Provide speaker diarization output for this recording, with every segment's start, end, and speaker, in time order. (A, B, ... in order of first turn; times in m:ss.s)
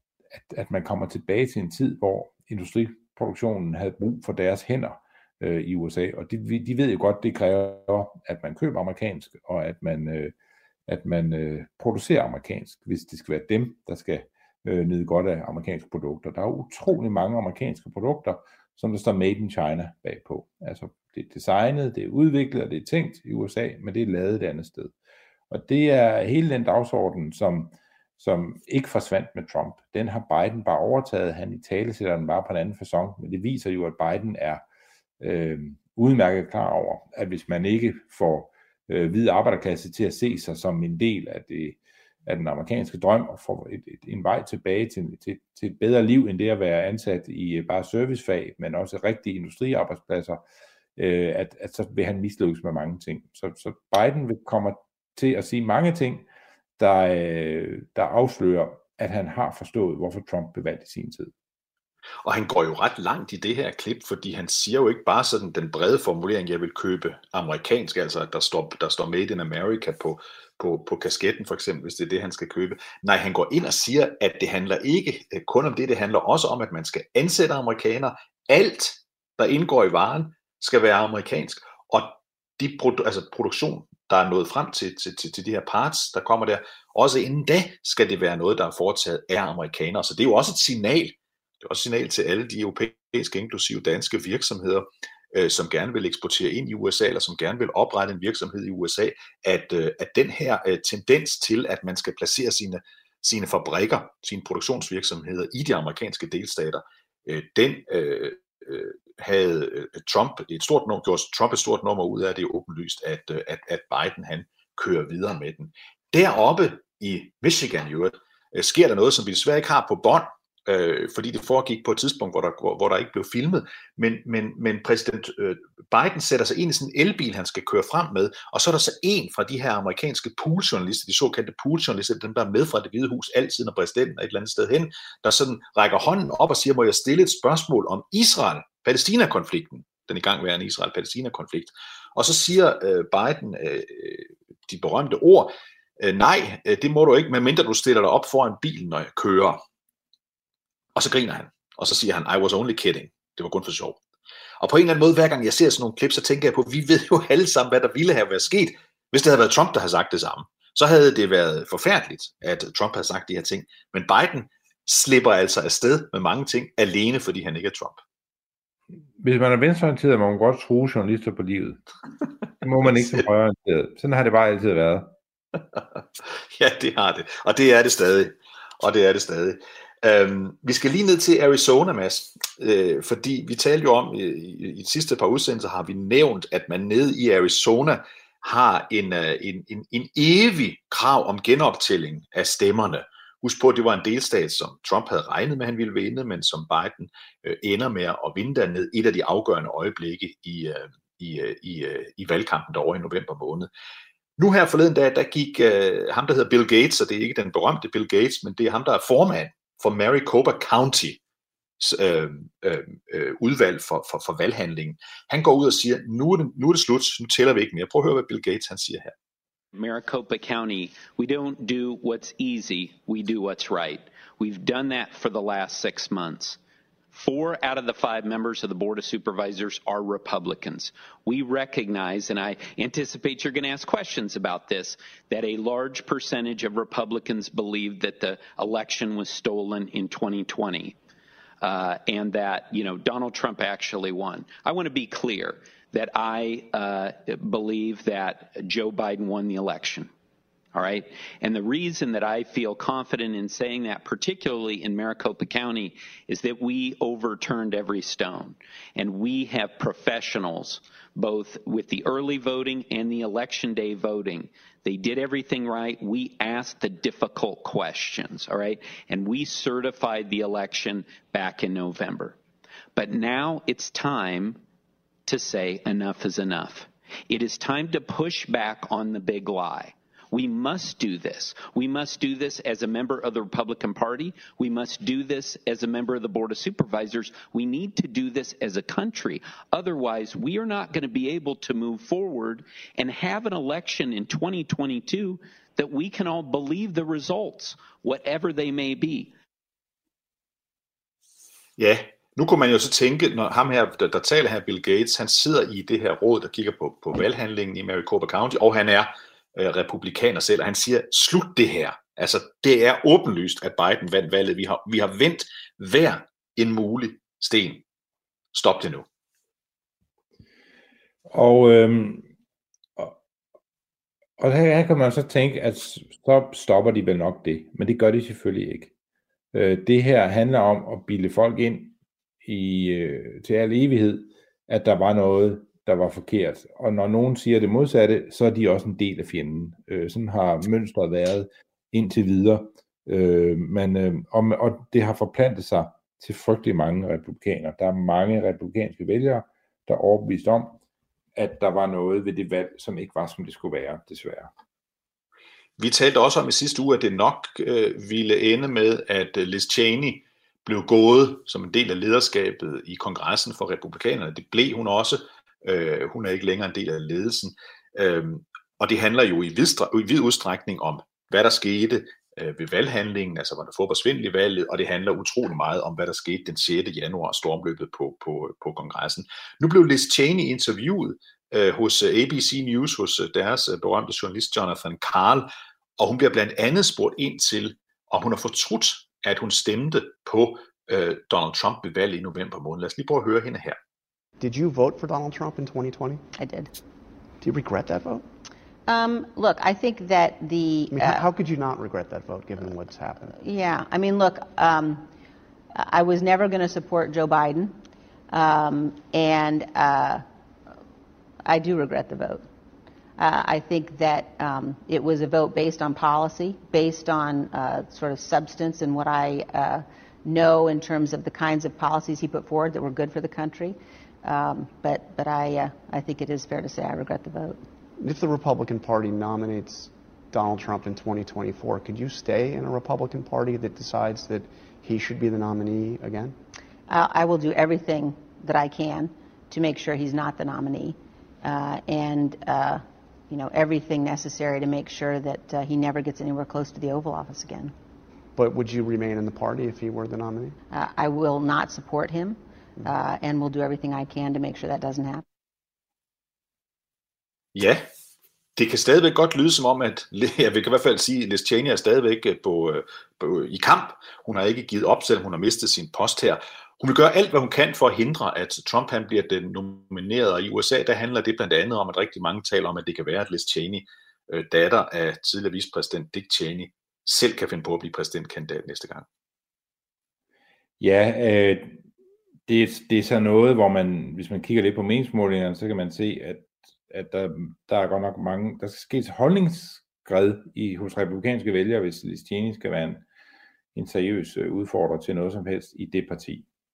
0:00.3-0:10.3 A
0:10.9-0:24.9 A
0:25.5-0:34.6 A
0:35.2-0:50.4 A
0:51.0-0:56.3 A
0:56.8-1:01.3 A
1:02.2-2:29.6 B
2:31.0-2:34.0 B
2:34.6-2:48.0 B
2:49.2-2:51.8 A
2:52.6-2:55.1 A
2:55.8-3:23.7 B
3:24.4-3:31.2 B
3:31.8-3:39.1 B
3:39.7-3:46.6 C
3:47.1-4:01.0 C
4:01.6-4:10.1 C
4:10.7-4:32.4 C
4:33.0-4:34.6 C
4:35.3-4:59.3 C
5:01.8-5:17.8 B
5:18.5-5:19.1 B
5:21.3-5:22.3 A
5:24.4-5:28.9 A
5:29.5-5:50.8 A
5:51.4-5:54.5 A
5:55.8-6:33.8 B
6:34.4-6:36.2 D
6:36.4-6:36.7 E
6:37.4-6:38.2 D
6:38.9-6:41.3 E
6:40.9-6:43.4 D
6:43.4-6:45.1 E
6:45.8-6:47.8 E
6:48.3-6:50.2 E
6:51.5-6:52.4 E
6:53.2-7:07.6 E
7:08.0-7:16.4 D
7:16.9-7:27.7 E
7:28.4-7:30.6 D
7:30.7-7:35.2 E
7:37.5-7:37.9 B
7:38.6-7:59.1 B
8:00.8-8:01.8 A
8:02.5-8:13.0 A
8:13.8-8:16.4 A